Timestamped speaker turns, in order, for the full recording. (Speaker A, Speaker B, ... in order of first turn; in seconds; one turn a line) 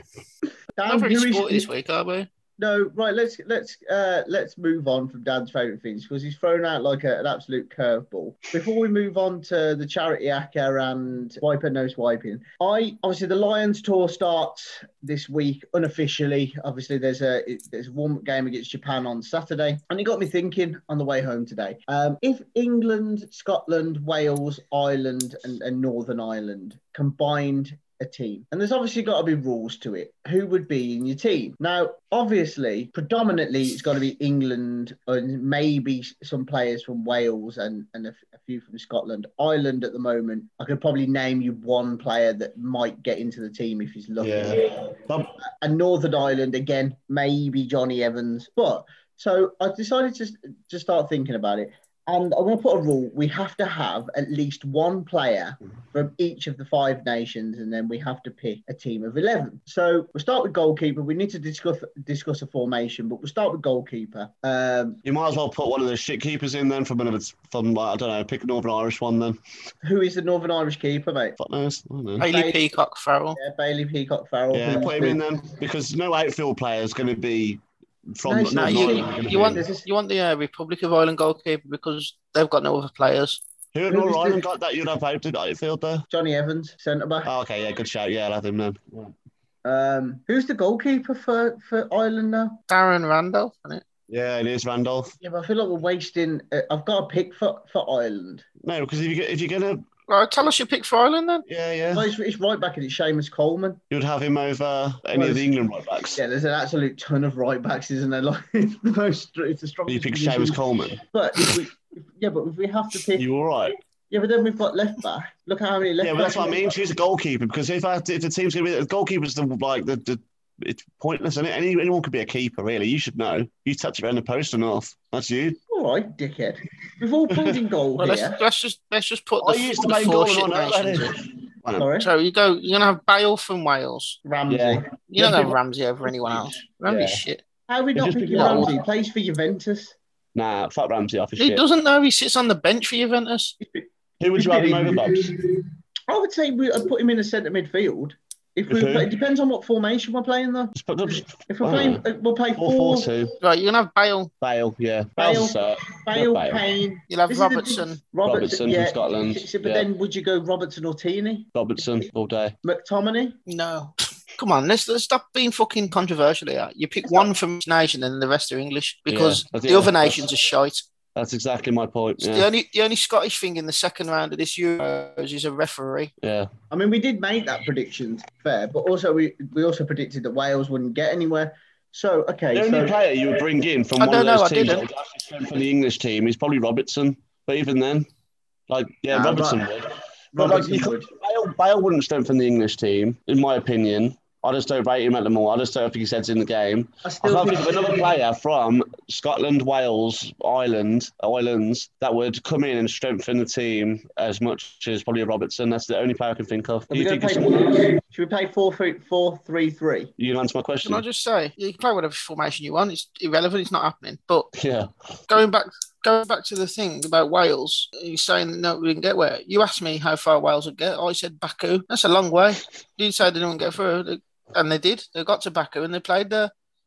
Speaker A: 0.8-1.7
Speaker B: 0.9-2.3
Speaker A: 2.6-44.9
Speaker C: 44.2-45.3
Speaker A: 45.6-65.0
Speaker C: 65.0-69.4
Speaker A: 69.8-71.3
Speaker C: 71.4-72.2
Speaker B: 72.2-73.4
Speaker A: 72.2-72.6
Speaker A: 73.3-75.2
Speaker C: 74.5-79.6
Speaker A: 78.2-79.8
Speaker B: 78.6-83.4
Speaker C: 83.7-86.1
Speaker A: 83.9-84.4
Speaker A: 86.1-87.3
Speaker C: 87.2-89.1
Speaker A: 89.6-92.6
Speaker B: 92.7-93.8
Speaker C: 94.1-95.2
Speaker A: 95.2-98.5
Speaker C: 98.6-99.8
Speaker B: 100.1-101.4
Speaker C: 101.5-102.1
Speaker A: 101.9-103.8
Speaker C: 103.9-106.2
Speaker A: 105.1-105.5
Speaker A: 106.2-113.2
Speaker C: 109.9-111.6
Speaker C: 113.1-113.8
Speaker A: 114.1-116.6
Speaker C: 116.0-125.6
Speaker A: 125.7-128.4
Speaker B: 128.0-131.1
Speaker C: 129.4-131.9
Speaker A: 131.8-132.1
Speaker B: 132.0-134.2
Speaker A: 134.2-134.9
Speaker C: 134.5-135.5
Speaker B: 135.1-137.4
Speaker C: 136.3-137.2
Speaker A: 137.7-139.9
Speaker C: 137.9-138.8
Speaker B: 138.4-138.7
Speaker C: 140.3-141.6
Speaker B: 141.4-143.6
Speaker A: 143.6-145.1
Speaker C: 144.2-145.3
Speaker A: 146.1-153.1
Speaker C: 148.7-149.1
Speaker C: 150.7-153.3
Speaker B: 153.4-154.3
Speaker C: 154.4-156.6
Speaker A: 155.2-161.5
Speaker B: 157.1-158.0
Speaker C: 158.2-159.9
Speaker C: 161.5-162.6
Speaker A: 162.6-163.4
Speaker B: 163.5-170.8
Speaker A: 167.0-167.3
Speaker C: 169.1-170.3
Speaker C: 171.1-172.5
Speaker B: 172.2-176.1
Speaker C: 176.2-176.5
Speaker A: 176.7-182.9
Speaker C: 182.5-188.1
Speaker B: 184.0-184.8
Speaker C: 188.7-207.9
Speaker A: 189.1-189.6
Speaker A: 190.3-191.1
Speaker A: 197.0-198.0
Speaker A: 206.9-210.1
Speaker C: 210.2-211.0
Speaker B: 210.8-214.5
Speaker C: 214.5-214.9
Speaker B: 215.3-226.5